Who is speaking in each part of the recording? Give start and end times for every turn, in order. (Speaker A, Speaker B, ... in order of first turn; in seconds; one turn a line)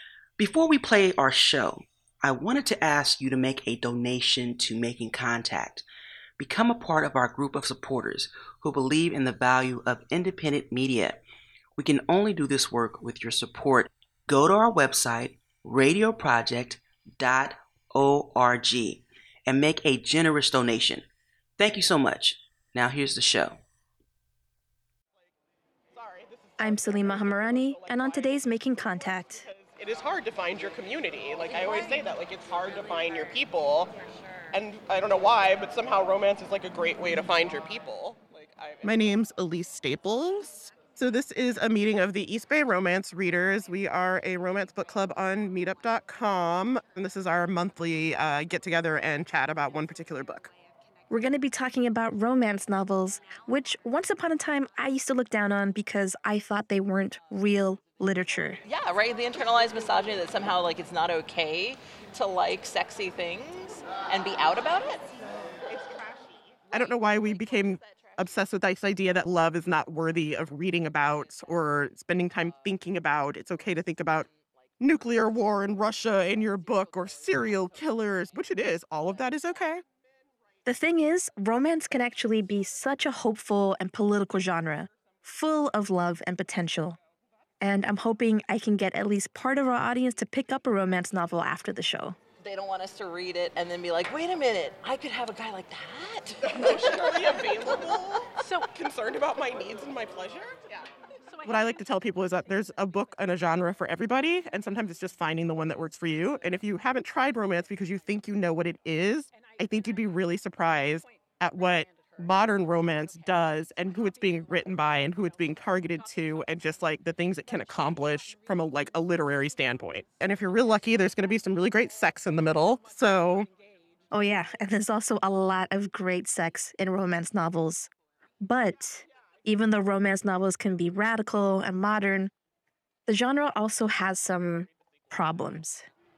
Speaker A: 0.4-5.8
Speaker A: 6.4-11.2
Speaker A: 11.8-21.1
Speaker A: 21.6-23.6
Speaker B: 25.9-33.9
Speaker C: 26.6-29.5
Speaker B: 34.5-38.9
Speaker D: 38.8-50.5
Speaker C: 51.1-58.6
Speaker E: 58.6-65.2
Speaker B: 65.7-66.6
Speaker D: 66.7-74.3
Speaker D: 74.8-79.8
Speaker C: 80.7-87.0
Speaker C: 87.6-92.2
Speaker E: 92.4-97.6
Speaker B: 96.6-100.9
Speaker D: 101.4-123.5
Speaker C: 124.1-127.9
Speaker C: 128.4-132.3
Speaker C: 133.1-135.9